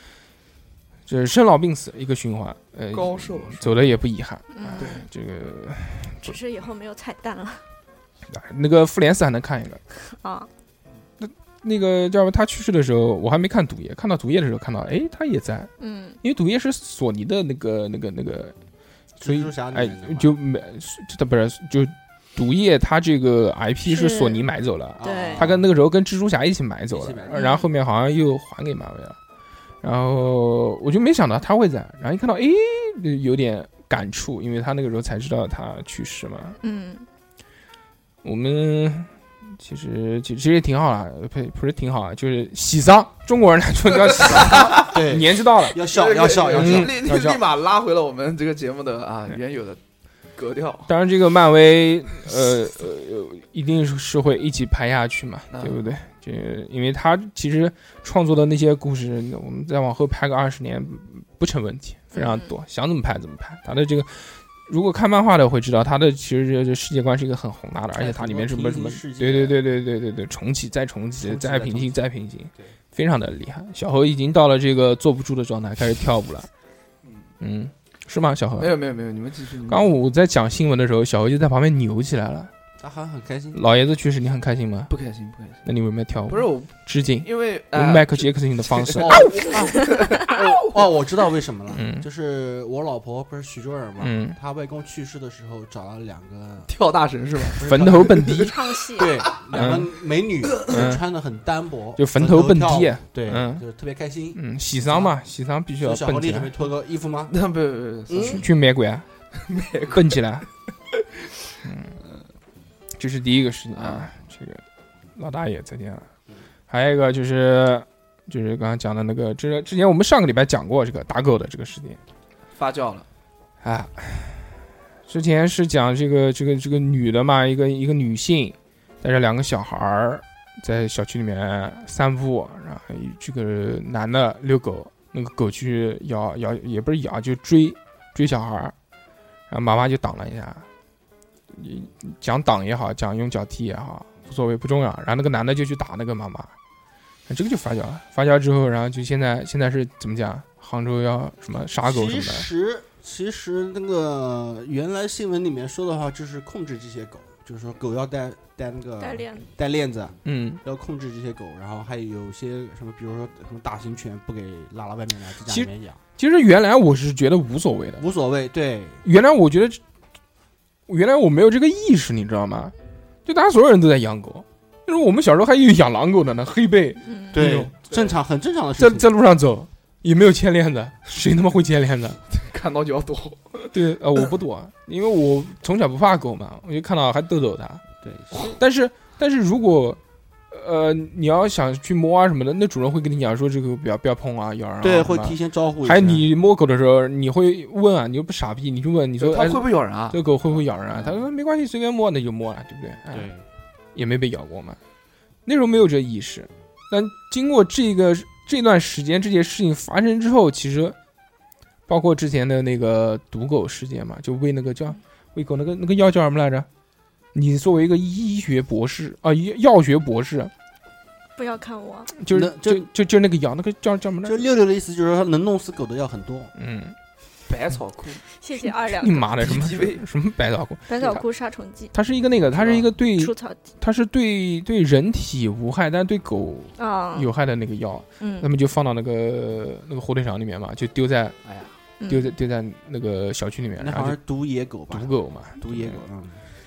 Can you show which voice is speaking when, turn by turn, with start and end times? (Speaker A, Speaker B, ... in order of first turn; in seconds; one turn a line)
Speaker A: 1.1-6.3
Speaker B: 2.9-4.0
Speaker C: 4.5-5.0
Speaker B: 4.8-5.0
Speaker C: 6.2-7.6
Speaker A: 8.3-9.8
Speaker C: 10.1-10.5
Speaker A: 11.2-15.7
Speaker C: 15.8-16.2
Speaker A: 16.2-18.6
Speaker D: 19.2-20.3
Speaker A: 19.2-29.2
Speaker C: 23.9-24.4
Speaker D: 25.0-25.6
Speaker C: 25.0-25.5
Speaker D: 26.9-27.4
Speaker C: 27.3-27.7
Speaker A: 29.8-36.6
Speaker C: 36.6-37.0
Speaker A: 38.2-45.8
Speaker B: 44.2-44.9
Speaker D: 44.2-47.0
Speaker B: 45.8-49.8
Speaker A: 46.5-47.4
Speaker B: 50.3-50.9
Speaker A: 50.9-76.5
Speaker B: 55.5-55.8
Speaker C: 62.1-62.5
Speaker D: 67.9-69.6
Speaker D: 71.2-72.0
Speaker A: 77.4-78.7
Speaker B: 78.6-79.9
Speaker A: 79.7-82.5
Speaker D: 82.8-83.6
Speaker A: 83.5-84.9
Speaker B: 84.9-85.6
Speaker A: 85.6-89.3
Speaker B: 86.3-90.8
Speaker D: 89.0-96.7
Speaker A: 91.7-92.0
Speaker A: 94.0-94.4
Speaker B: 96.7-98.4
Speaker D: 97.5-98.4
Speaker A: 97.6-98.5
Speaker C: 98.4-99.2
Speaker D: 98.9-105.1
Speaker A: 99.5-99.9
Speaker B: 100.5-100.9
Speaker A: 100.7-101.0
Speaker A: 102.0-103.6
Speaker A: 104.3-106.5
Speaker D: 105.8-107.3
Speaker B: 107.3-108.5
Speaker D: 108.1-108.4
Speaker A: 108.2-109.0
Speaker B: 109.4-110.2
Speaker A: 109.9-110.4
Speaker A: 111.6-111.9
Speaker A: 113.0-114.6
Speaker B: 113.7-114.1
Speaker A: 115.1-116.1
Speaker A: 116.7-122.0
Speaker B: 122.5-123.0
Speaker A: 123.6-138.7
Speaker A: 139.5-140.7
Speaker A: 141.5-146.5
Speaker A: 147.3-152.5
Speaker D: 151.8-166.0
Speaker C: 159.0-159.5
Speaker A: 160.2-160.6
Speaker A: 165.4-168.1
Speaker D: 168.0-169.0
Speaker A: 169.0-169.8
Speaker A: 170.9-172.7
Speaker A: 173.2-177.7
Speaker C: 177.1-177.4
Speaker D: 177.3-179.1
Speaker A: 178.8-182.2
Speaker B: 182.3-183.8
Speaker A: 183.7-187.8
Speaker D: 188.0-188.6
Speaker A: 188.3-190.0
Speaker A: 190.5-203.3
Speaker D: 194.8-196.2
Speaker B: 199.2-200.2
Speaker D: 203.1-203.4
Speaker A: 203.9-204.8
Speaker A: 205.4-211.0
Speaker A: 211.9-216.7
Speaker A: 217.3-220.5
Speaker C: 221.3-222.1
Speaker A: 222.1-224.4
Speaker D: 222.3-222.9
Speaker D: 224.2-226.5
Speaker A: 226.5-226.9
Speaker B: 227.5-228.2
Speaker C: 228.4-229.6
Speaker A: 228.9-231.2
Speaker B: 229.4-230.0
Speaker C: 230.9-231.9
Speaker A: 231.9-241.4
Speaker B: 232.5-232.9
Speaker C: 233.2-233.6
Speaker C: 236.8-237.3
Speaker C: 238.2-238.5
Speaker B: 241.4-241.8
Speaker C: 242.0-242.3
Speaker A: 242.1-244.2
Speaker D: 243.8-246.4
Speaker A: 244.9-246.0